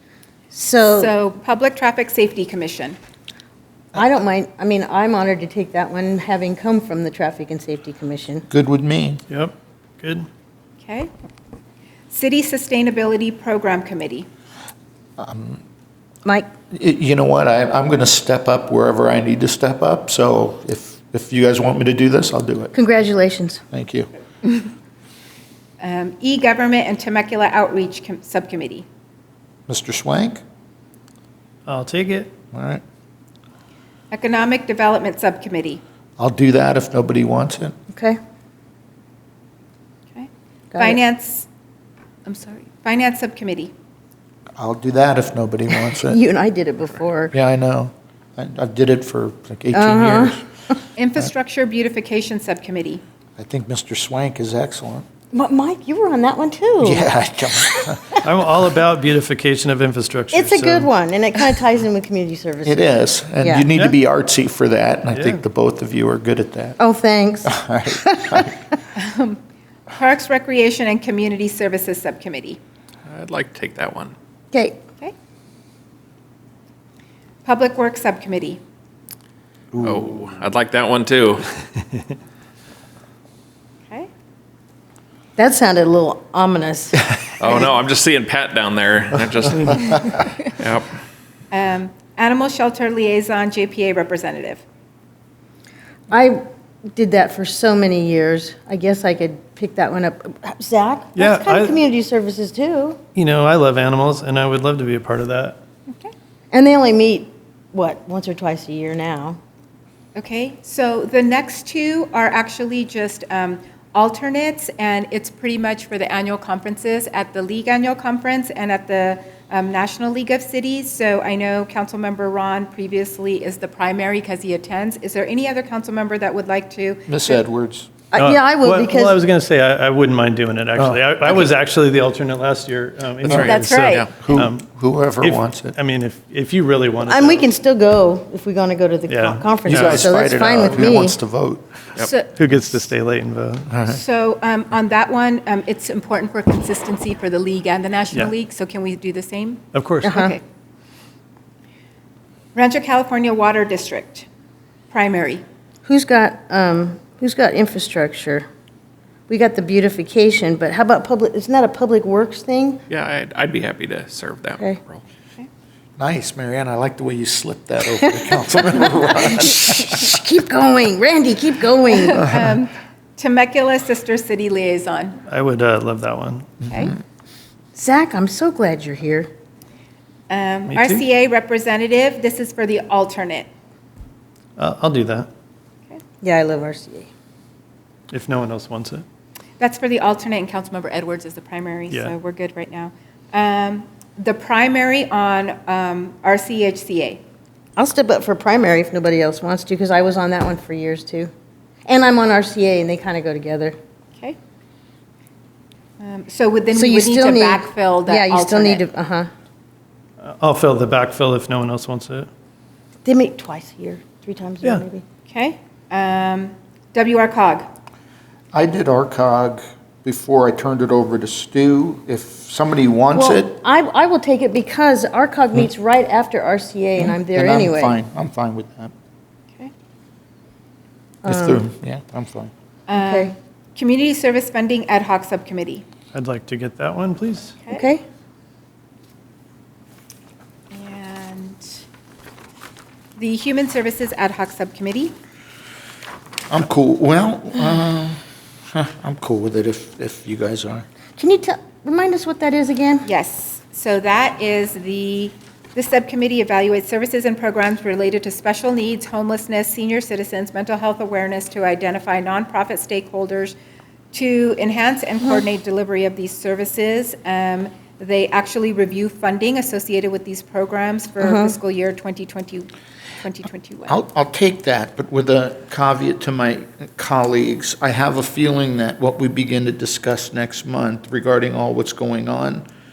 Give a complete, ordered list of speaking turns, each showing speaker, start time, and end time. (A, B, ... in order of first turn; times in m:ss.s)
0:00.5-0:01.2 A
0:00.8-0:03.0 B
0:03.9-0:08.5 A
0:08.5-0:09.2 C
0:09.3-0:10.3 D
0:10.8-0:11.1 B
0:12.1-0:14.3 B
0:15.2-0:15.6 C
0:16.7-0:22.7 C
0:22.7-0:23.6 A
0:23.7-0:24.1 C
0:25.8-0:28.9 B
0:29.7-0:30.4 C
0:31.7-0:32.3 D
0:32.5-0:32.8 C
0:34.1-0:35.8 B
0:36.2-0:37.8 C
0:37.9-0:38.2 A
0:40.1-0:41.5 B
0:40.7-0:41.0 A
0:42.2-0:43.7 B
0:44.6-0:46.2 C
0:45.7-0:47.4 A
0:47.3-0:50.4 C
0:49.7-0:50.8 A
0:51.0-0:53.0 B
0:53.4-0:55.0 C
0:55.3-0:57.9 A
0:56.8-0:58.2 C
0:58.2-1:00.9 D
1:00.3-1:03.7 A
1:02.6-1:06.8 C
1:05.1-1:05.4 D
1:06.8-1:08.5 A
1:07.5-1:08.5 C
1:09.0-1:09.4 B
1:09.9-1:12.6 B
1:13.1-1:14.1 E
1:14.5-1:14.8 A
1:17.4-1:18.6 B
1:19.7-1:21.4 E
1:25.4-1:27.1 A
1:27.4-1:30.9 E
1:31.5-1:34.6 B
1:36.1-1:36.4 A
1:36.9-1:43.0 A
1:41.2-1:41.8 D
1:43.1-1:45.6 D
1:46.5-1:49.4 A
1:50.1-2:07.4 B
2:07.1-2:07.9 C
2:08.1-2:09.2 A
2:08.1-2:14.6 D
2:13.2-2:14.1 E
2:13.3-2:13.5 C
2:13.4-2:14.1 B
2:14.2-2:15.8 C
2:15.2-2:17.4 D
2:17.1-2:21.2 A
2:19.1-2:19.9 D
2:19.7-2:21.8 C
2:19.8-2:20.1 E
2:22.0-2:22.3 B
2:22.3-2:23.7 D
2:23.7-2:24.0 C
2:23.8-2:30.4 B
2:29.7-2:30.2 D
2:30.0-2:30.4 A
2:32.5-2:34.2 B
2:34.9-2:35.4 B
2:35.8-2:38.4 A
2:39.3-2:42.8 A
2:42.9-2:45.0 E
2:46.0-2:50.0 C
2:49.1-2:52.4 A
2:51.9-2:55.2 B
2:55.3-2:56.5 D
2:56.7-2:56.9 B
2:57.8-2:59.3 A
3:00.3-3:03.5 B
3:00.7-3:01.0 D
3:04.6-3:05.3 D
3:06.2-3:07.1 A
3:08.1-3:09.0 D
3:09.6-3:17.2 B
3:17.8-3:21.3 A
3:21.9-3:23.8 A
3:26.0-3:28.8 B
3:26.7-3:29.3 A
3:30.2-3:32.3 D
3:33.0-3:35.0 A
3:35.3-3:37.7 B
3:38.5-3:43.6 C
3:43.1-3:48.0 A
3:47.0-3:48.9 C
3:51.2-3:51.7 A
3:51.2-3:52.5 C
3:52.9-3:55.8 B
3:52.9-3:53.3 A
3:56.1-3:57.6 D
3:57.6-3:57.9 B
3:57.7-3:58.0 A
4:00.7-4:01.8 B
4:03.2-4:05.1 B
4:06.5-4:08.2 C
4:08.7-4:10.8 C
4:11.2-4:13.1 A
4:13.0-4:23.6 B
4:24.1-4:32.7 B
4:31.2-4:31.6 A
4:33.2-4:34.0 B
4:33.9-4:42.6 C